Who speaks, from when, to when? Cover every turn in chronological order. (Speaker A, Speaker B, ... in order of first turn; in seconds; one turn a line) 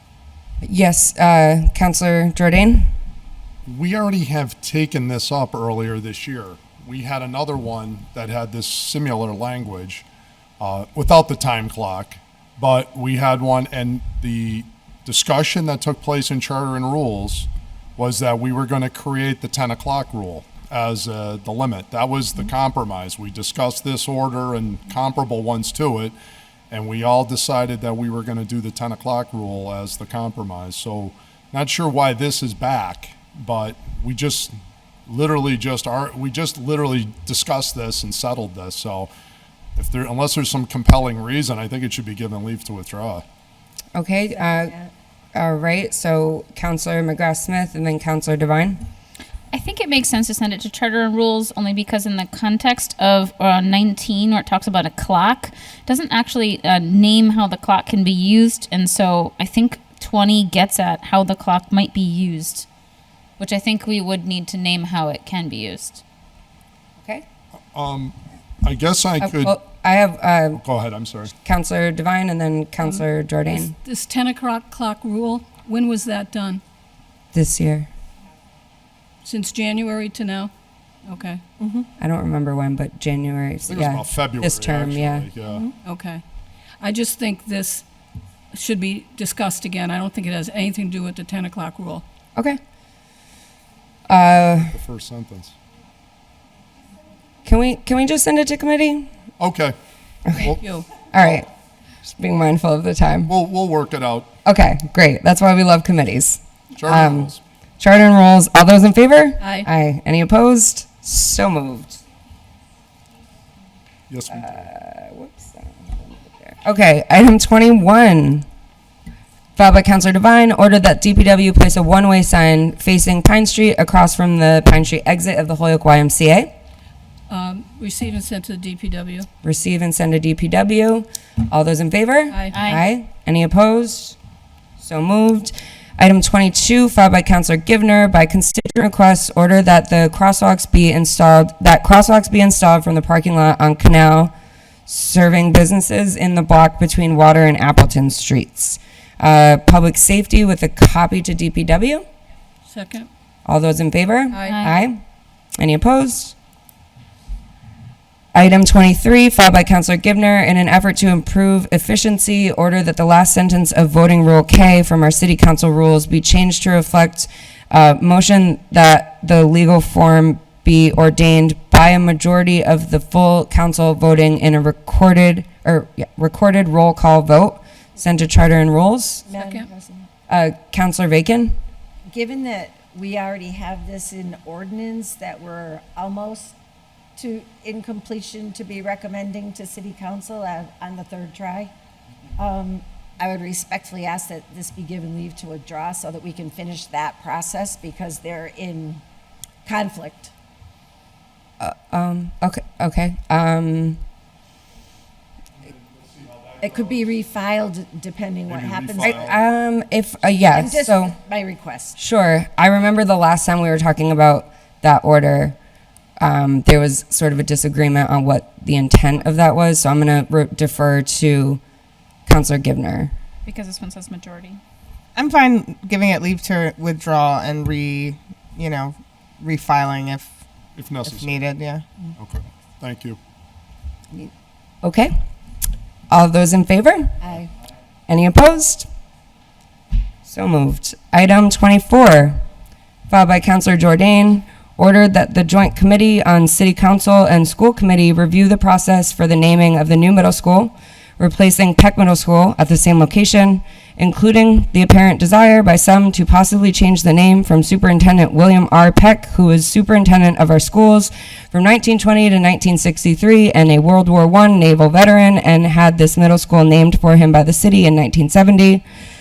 Speaker A: 0.6-2.9
Speaker B: 3.6-10.0
Speaker B: 10.6-26.1
Speaker B: 26.7-34.5
Speaker B: 35.1-39.1
Speaker B: 39.8-43.2
Speaker A: 43.9-44.7
Speaker C: 44.4-44.9
Speaker A: 45.3-48.8
Speaker D: 49.5-62.6
Speaker D: 63.4-66.0
Speaker B: 67.7-69.6
Speaker A: 69.2-70.6
Speaker B: 70.6-71.3
Speaker A: 71.4-73.7
Speaker E: 72.8-76.6
Speaker A: 77.3-77.9
Speaker E: 79.2-80.5
Speaker E: 81.0-81.4
Speaker A: 82.0-85.3
Speaker B: 83.7-85.7
Speaker E: 85.8-86.2
Speaker E: 86.8-87.8
Speaker E: 88.5-92.0
Speaker A: 94.1-94.7
Speaker B: 94.7-95.5
Speaker A: 97.4-99.1
Speaker B: 99.4-99.8
Speaker B: 100.3-100.6
Speaker E: 100.5-100.9
Speaker A: 101.1-101.5
Speaker B: 101.2-101.4
Speaker A: 102.0-103.3
Speaker B: 103.3-104.3
Speaker A: 104.4-112.0
Speaker B: 106.8-107.4
Speaker E: 109.4-109.7
Speaker B: 114.1-114.5
Speaker A: 114.3-118.5
Speaker A: 119.6-126.5
Speaker E: 127.3-129.3
Speaker A: 129.4-134.2
Speaker E: 132.3-132.6
Speaker D: 132.5-132.8
Speaker A: 134.8-144.3
Speaker A: 144.9-152.0
Speaker E: 152.7-153.1
Speaker A: 153.4-155.0
Speaker E: 154.3-154.6
Speaker D: 154.4-154.7
Speaker A: 155.6-156.3
Speaker A: 158.3-179.3
Speaker C: 179.3-180.1
Speaker E: 179.3-179.7
Speaker A: 180.3-181.5
Speaker C: 182.1-186.5
Speaker C: 187.2-191.7
Speaker C: 192.4-199.0
Speaker C: 199.7-200.3
Speaker A: 201.6-204.0
Speaker B: 206.0-207.1
Speaker C: 206.6-209.3
Speaker B: 208.5-209.4
Speaker A: 209.0-211.1
Speaker C: 210.4-211.9
Speaker A: 211.9-215.6
Speaker A: 216.2-221.6
Speaker A: 222.2-223.1
Speaker D: 223.4-224.6
Speaker F: 225.1-230.4
Speaker B: 230.8-231.3
Speaker F: 231.1-231.9
Speaker B: 232.2-233.2
Speaker A: 234.8-235.1
Speaker A: 236.1-237.2
Speaker C: 237.2-237.5
Speaker A: 238.1-238.9
Speaker A: 240.2-242.4
Speaker A: 243.1-268.8